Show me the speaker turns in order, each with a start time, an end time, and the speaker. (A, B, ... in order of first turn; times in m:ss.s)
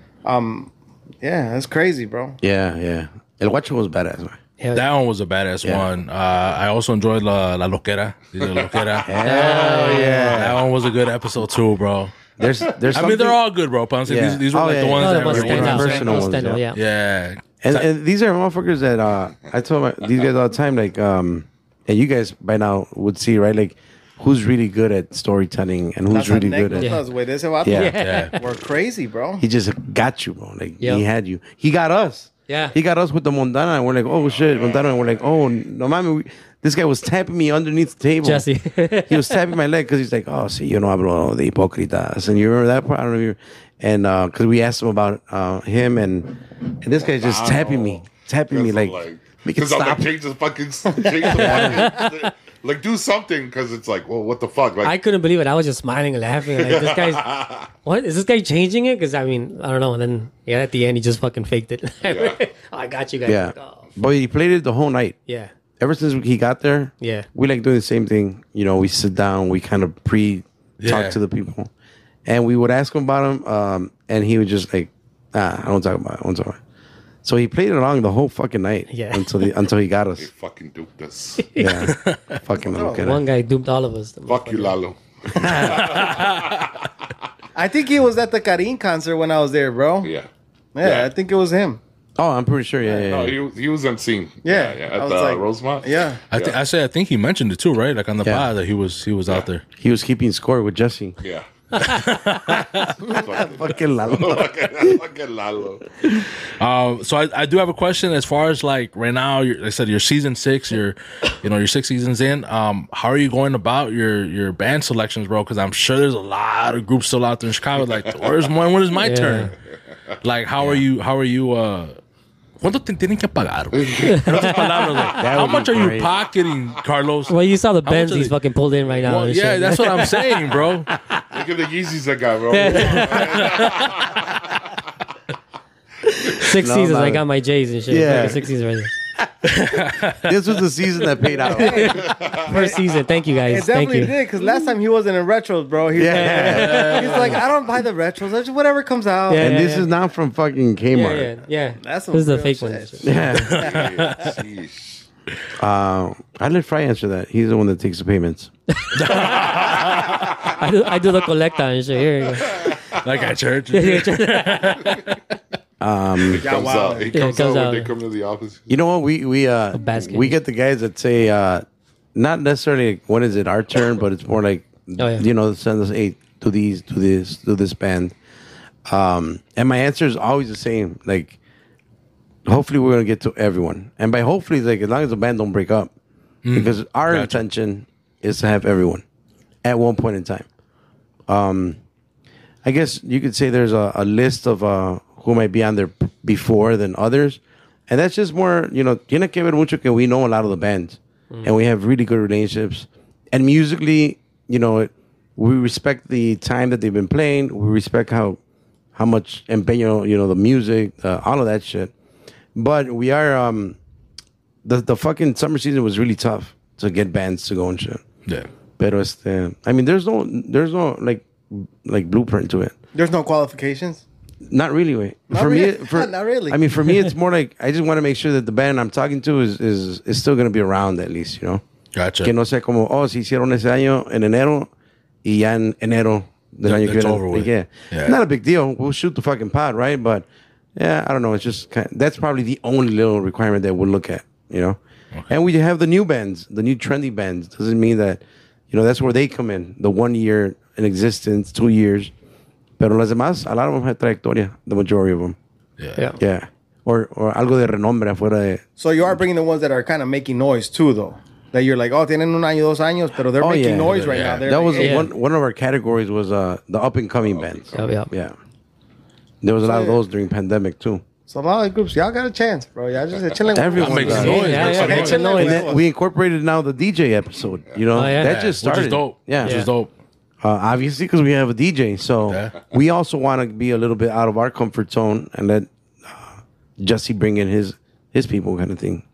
0:00.2-0:02.4 A
0:02.4-0:04.4 B
0:04.6-0:04.8 C
0:04.7-0:12.2 D
0:08.4-0:09.0 E
0:09.0-0:10.6 B
0:09.2-0:10.5 C
0:12.4-0:13.4 B
0:12.4-0:13.0 E
0:12.9-0:17.8 D
0:14.0-0:16.6 B
0:15.0-0:16.8 C
0:17.6-0:27.0 B
0:26.1-0:29.4 A
0:26.8-0:27.0 C
0:27.6-0:27.9 B
0:27.7-0:28.4 C
0:27.9-0:28.4 D
0:29.4-0:38.4 B
0:32.5-0:32.7 C
0:34.3-0:35.2 E
0:38.2-0:39.4 C
0:39.1-0:50.1 B
0:47.0-0:54.9 E
0:51.3-0:51.9 B
0:51.3-0:52.1 C
0:54.8-0:57.3 C
0:56.6-0:57.7 E
0:57.8-1:03.9 C
1:02.0-1:02.4 E
1:03.2-1:05.2 B
1:05.3-1:05.5 C
1:05.8-1:11.7 B
1:07.0-1:07.3 C
1:10.8-1:11.2 D
1:12.2-1:16.6 B
1:17.2-1:20.3 B
1:18.9-1:19.5 C
1:20.2-1:21.4 E
1:21.4-1:21.8 C
1:21.6-1:23.2 B
1:21.8-1:22.4 D
1:22.7-1:23.0 A
1:22.9-1:24.7 C
1:24.3-1:26.9 E
1:25.4-1:25.8 B
1:25.6-1:26.5 D
1:27.5-1:30.1 A
1:30.0-1:30.3 E
1:30.7-1:31.8 A
1:30.8-1:31.1 E
1:32.2-1:33.4 B
1:32.8-1:36.6 E
1:34.4-1:36.2 A
1:36.3-1:39.6 D
1:38.2-1:38.5 B
1:39.8-1:41.2 B
1:41.7-1:42.9 D
1:42.6-1:46.2 E
1:43.1-1:45.0 B
1:46.6-1:59.5 D
1:58.0-1:58.4 E
1:59.0-1:59.5 C
2:00.2-2:02.0 D
2:02.6-2:08.3 D
2:03.7-2:05.2 E
2:04.1-2:04.5 C
2:05.1-2:06.1 B
2:07.3-2:10.2 C
2:09.0-2:10.9 D
2:11.3-2:14.7 E
2:12.5-2:13.4 C
2:13.3-2:13.9 D
2:16.3-2:18.9 C
2:16.4-2:17.2 B
2:17.9-2:18.5 B
2:19.2-2:19.6 B
2:19.4-2:20.3 D
2:20.1-2:22.0 B
2:21.4-2:22.8 A
2:21.4-2:24.2 C
2:22.0-2:22.5 E
2:23.5-2:29.5 A
2:25.9-2:27.0 B
2:26.1-2:27.4 C
2:26.5-2:27.4 D
2:29.3-2:29.9 C
2:29.4-2:31.3 B
2:30.9-2:33.5 C
2:31.8-2:34.1 A
2:33.0-2:33.6 B
2:33.4-2:34.3 D
2:33.6-2:35.0 E
2:35.6-2:38.5 B
2:38.7-2:39.9 C
2:38.9-2:40.3 D
2:39.8-2:40.6 E
2:40.4-2:42.6 C
2:42.4-2:43.0 E
2:42.9-2:45.2 D
2:43.7-2:44.9 C
2:45.8-2:46.5 B
2:46.2-2:48.7 E
2:46.3-2:47.2 A
2:47.1-2:47.9 C
2:48.7-2:58.1 B
2:49.7-2:50.4 C
2:55.0-2:55.2 C
2:58.9-3:01.4 B
3:02.4-3:05.9 B
3:06.4-3:07.4 D
3:06.5-3:09.0 B
3:09.6-3:10.4 B
3:11.3-3:11.8 B
3:12.6-3:28.4 B
3:28.9-3:31.9 B
3:32.5-3:33.8 B
3:34.6-3:38.0 B
3:38.8-3:42.7 B
3:42.9-3:44.0 A
3:44.5-3:51.6 B
3:45.3-3:46.6 A
3:51.9-3:52.3 D
3:52.2-3:54.7 B
3:55.2-4:12.1 B
3:56.6-3:58.2 D
4:12.8-4:15.4 B
4:15.8-4:16.1 D
4:16.2-4:19.2 B
4:18.8-4:25.0 A
4:23.4-4:28.4 B
4:23.9-4:24.4 D
4:24.8-4:25.1 C
4:27.3-4:27.9 E
4:27.7-4:28.1 C
4:29.4-4:31.0 B
4:29.6-4:30.0 A
4:31.3-4:35.8 A
4:33.1-4:33.4 E
4:33.5-4:39.6 B
4:33.8-4:35.4 D
4:34.1-4:35.7 C
4:37.9-4:38.4 C
4:38.2-4:39.9 D
4:39.4-4:39.7 C
4:40.4-4:49.0 B
4:42.3-4:42.6 D